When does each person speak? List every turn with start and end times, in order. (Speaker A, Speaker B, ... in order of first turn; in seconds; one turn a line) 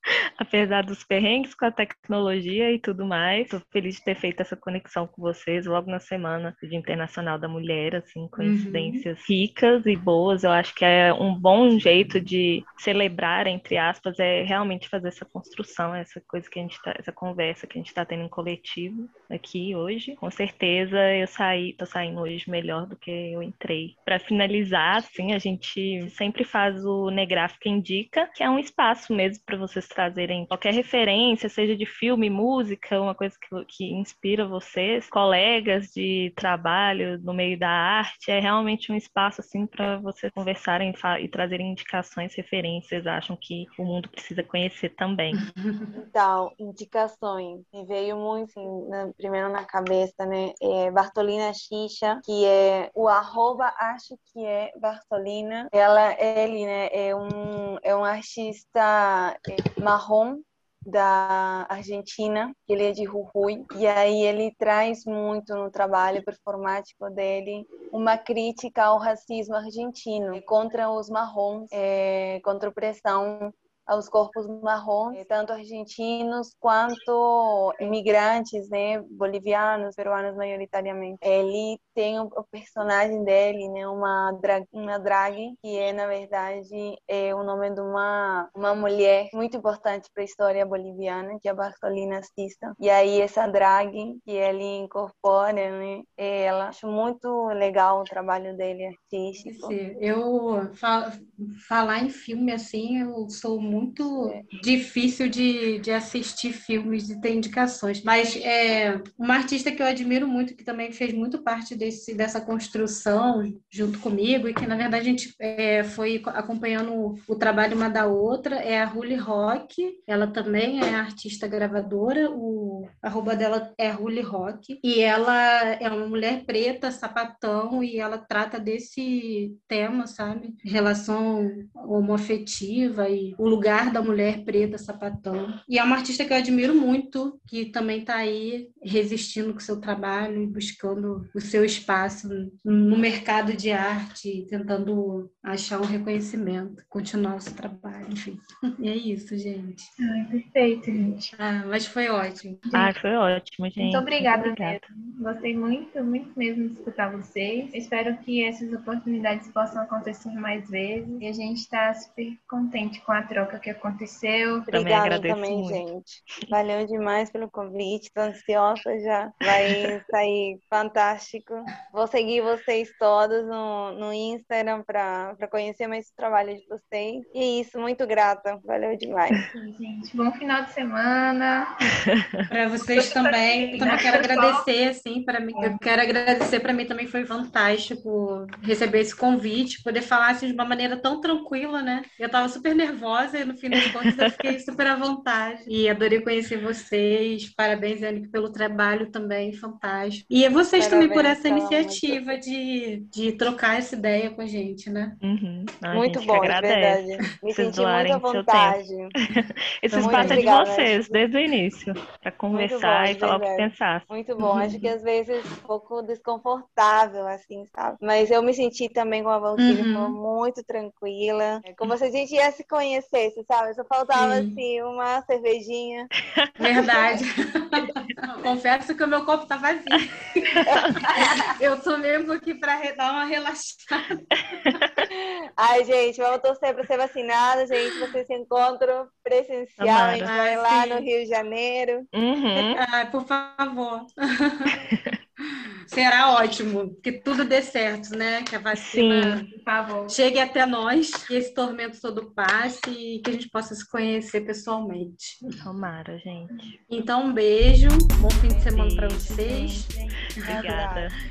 Speaker A: 0.4-45.5
Speaker B: 8.3-9.0
Speaker B: 45.3-45.9
Speaker C: 45.9-99.8
Speaker B: 99.4-149.9
Speaker C: 104.0-104.5
Speaker D: 150.0-151.3
Speaker B: 151.3-152.6
Speaker D: 152.7-152.9
Speaker A: 152.7-154.8
Speaker D: 153.8-164.7
Speaker C: 164.7-179.4
Speaker A: 164.7-165.8
Speaker D: 179.5-181.9
Speaker A: 182.2-182.4
Speaker B: 182.5-205.2
Speaker D: 182.9-184.7
Speaker A: 193.8-194.3
Speaker C: 200.8-202.2
Speaker A: 205.2-214.1
Speaker C: 205.9-209.1
Speaker B: 209.9-210.5
Speaker C: 209.9-211.2
Speaker C: 212.5-226.1
Speaker B: 214.4-214.9
Speaker B: 219.6-220.2
Speaker B: 224.1-224.6
Speaker A: 226.3-226.8
Speaker B: 226.6-234.2
Speaker C: 226.9-227.2
Speaker A: 230.5-231.0
Speaker C: 230.6-231.5
Speaker A: 234.6-235.0
Speaker C: 235.1-242.1
Speaker A: 239.8-240.3
Speaker B: 240.2-241.1
Speaker A: 242.1-242.8
Speaker B: 242.6-244.8
Speaker A: 244.9-245.2
Speaker B: 245.9-249.5
Speaker A: 248.7-249.4
Speaker D: 249.5-250.2
Speaker B: 250.1-255.4
Speaker A: 255.6-256.8
Speaker B: 256.9-260.6
Speaker A: 258.7-261.2
Speaker C: 260.4-261.1